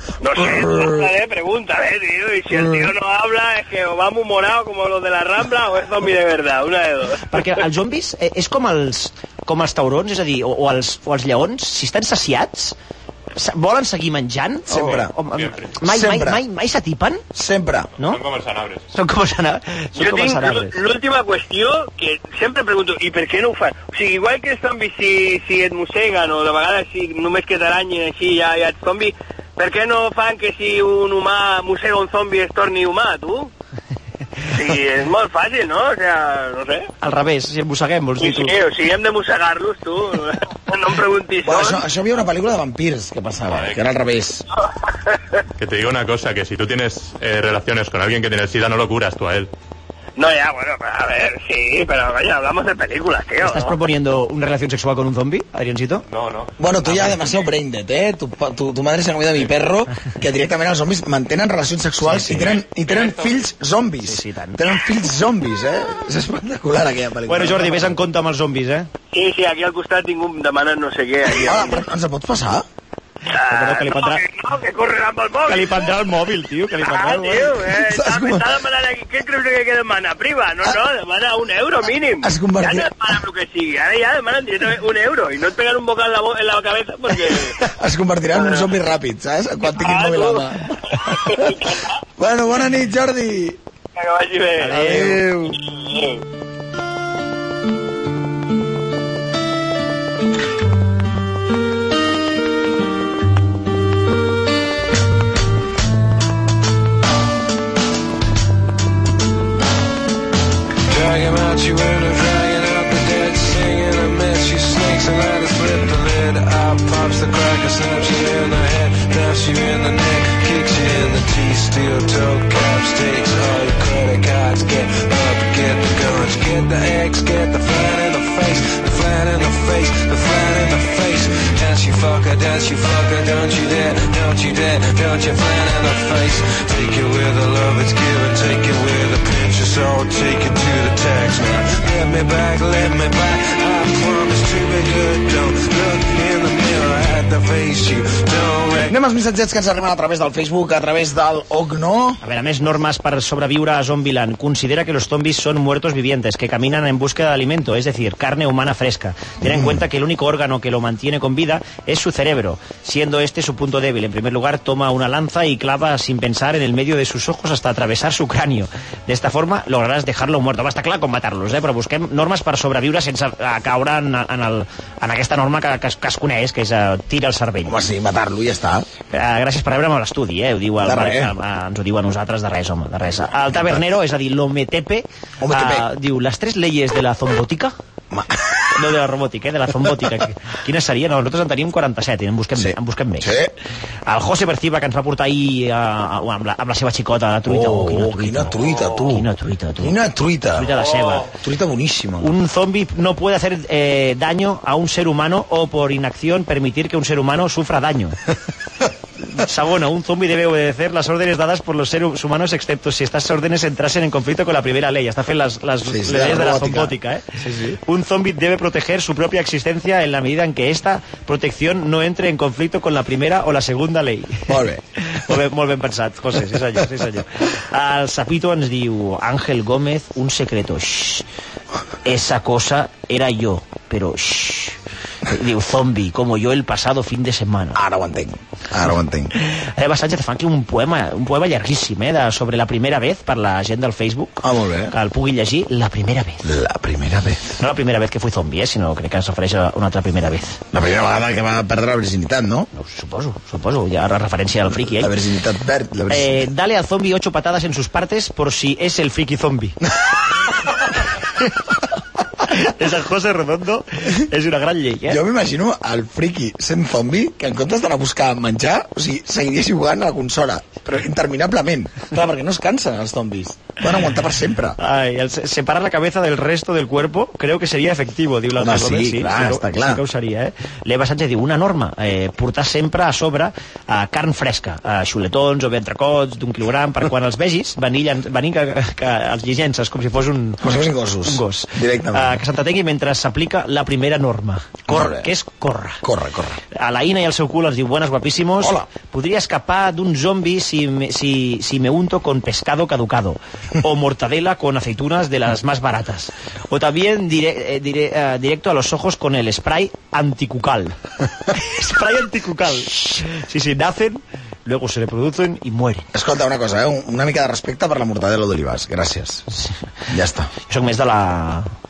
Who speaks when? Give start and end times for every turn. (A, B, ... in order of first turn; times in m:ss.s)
0:00.2-0:07.4 A
0:00.4-0:01.1 B
0:02.5-0:02.9 B
0:07.3-0:12.8 C
0:13.3-0:17.2 C
0:14.7-0:15.1 B
0:15.3-0:15.8 D
0:15.8-0:16.4 B
0:17.3-0:17.9 B
0:18.0-0:18.9 D
0:18.9-0:20.7 C
0:20.0-0:33.5 A
0:34.5-0:36.9 A
0:37.0-0:38.6 C
0:38.2-0:41.8 A
0:41.4-0:44.4 B
0:43.5-0:43.8 D
0:45.1-0:45.4 A
0:45.6-0:49.5 D
0:50.2-0:53.8 A
0:53.4-0:56.0 C
0:56.1-0:56.5 D
0:56.6-1:08.0 B
0:56.8-0:57.2 C
1:02.0-1:02.6 C
1:02.4-1:03.5 D
1:04.0-1:04.6 C
1:07.3-1:08.9 C
1:09.1-1:11.8 A
1:11.3-1:12.6 B
1:13.3-1:16.0 A
1:13.4-1:14.2 C
1:15.5-1:17.7 C
1:16.8-1:27.6 A
1:17.8-1:18.5 B
1:22.2-1:22.9 B
1:27.6-1:31.6 B
1:28.3-1:28.7 A
1:29.7-1:30.5 A
1:31.0-1:32.0 A
1:32.2-1:33.6 B
1:34.0-1:34.8 A
1:34.6-1:35.2 C
1:34.7-1:35.6 B
1:35.6-1:36.2 A
1:50.9-2:28.9 E
2:28.8-2:32.2 B
2:32.2-2:57.8 C
2:39.4-2:39.8 B
2:57.6-2:58.9 B
2:59.1-3:07.7 C
3:00.8-3:01.3 B
3:03.5-3:03.8 B
3:05.4-3:05.9 B
3:08.1-3:08.6 B
3:08.7-3:13.3 C
3:12.6-3:13.5 B
3:14.1-3:20.0 C
3:17.4-3:19.3 B
3:19.8-3:22.3 B
3:20.5-3:21.3 C
3:20.9-3:21.2 D
3:22.2-3:28.2 C
3:29.3-3:37.3 C
3:35.8-3:37.8 B
3:37.8-3:44.5 C
3:44.5-3:44.8 B
3:45.1-3:51.2 C
3:52.0-3:57.8 C
3:57.7-3:59.3 B
3:59.4-4:06.5 C
4:04.4-4:04.9 B
4:06.4-4:07.6 B
4:07.6-4:10.6 C
4:10.7-4:12.7 B
4:12.7-4:15.1 C
4:14.7-4:16.5 B
4:16.1-4:19.8 C
4:22.4-4:25.2 C
4:25.1-4:34.8 B
4:34.8-4:50.6 C
4:38.6-4:40.0 B
4:50.6-4:52.4 B
4:51.2-4:56.0 C
4:54.9-4:55.3 B
4:56.0-4:56.6 B
4:56.7-5:11.0 C
4:58.6-4:58.9 B
5:11.5-5:16.1 C
5:16.1-5:19.5 B
5:20.1-5:20.5 B
5:20.7-5:21.7 C